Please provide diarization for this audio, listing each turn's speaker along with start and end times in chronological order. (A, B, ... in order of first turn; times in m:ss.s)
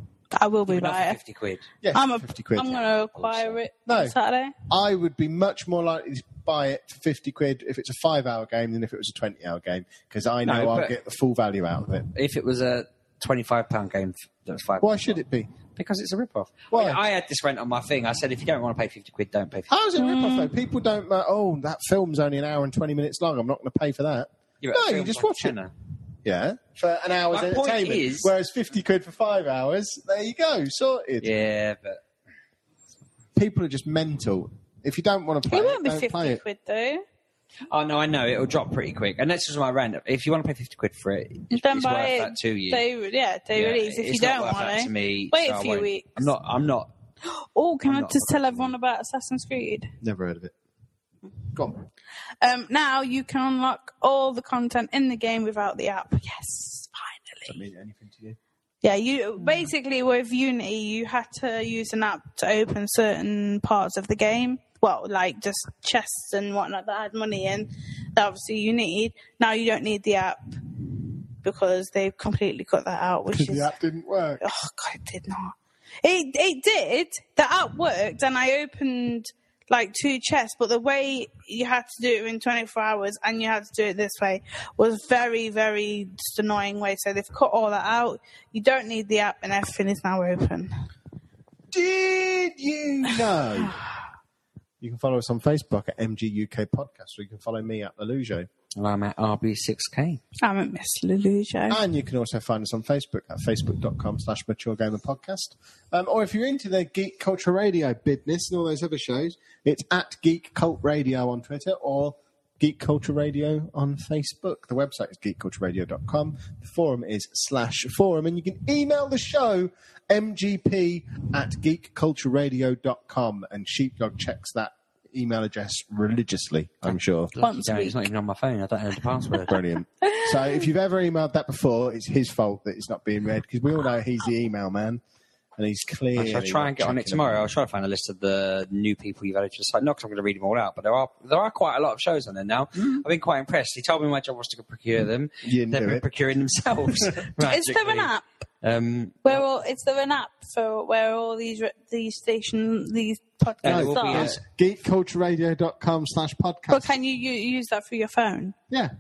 0:00.3-0:01.2 A
0:00.7-0:01.7 B
0:01.8-0:04.2 C
0:01.9-0:04.6 A
0:04.7-0:12.1 C
0:10.4-0:10.9 B
0:12.1-0:15.2 B
0:14.8-0:15.5 C
0:15.8-0:19.7 B
0:16.7-0:17.0 C
0:19.7-0:25.6 C
0:20.0-0:20.5 A
0:24.6-0:25.7 B
0:26.2-0:31.3 C
0:27.3-0:28.3 B
0:31.2-0:32.0 B
0:33.4-0:36.4 C
0:35.5-0:37.0 A
0:37.7-0:42.8 B
0:41.5-0:46.3 A
0:43.6-0:46.9 B
0:47.2-0:49.9 A
0:47.8-0:48.7 B
0:50.0-0:50.6 C
0:51.5-0:51.8 C
0:52.4-0:57.6 A
0:57.5-0:58.4 C
0:58.8-1:10.6 A
1:11.4-1:13.7 A
1:13.3-1:14.5 C
1:14.4-1:30.7 A
1:31.7-1:33.8 C
1:34.8-1:38.5 C
1:38.8-1:40.2 B
1:40.4-1:41.8 A
1:41.7-2:07.4 C
2:07.4-2:09.6 B
2:07.4-2:08.0 A
2:09.4-2:15.0 C
2:10.0-2:10.6 A
2:15.6-2:17.4 C
2:16.2-2:28.1 B
2:25.4-2:26.0 C
2:27.4-2:28.2 A
2:28.6-2:29.4 B
2:29.2-2:34.3 A
2:33.6-2:34.4 B
2:33.6-2:37.0 C
2:36.7-2:38.6 A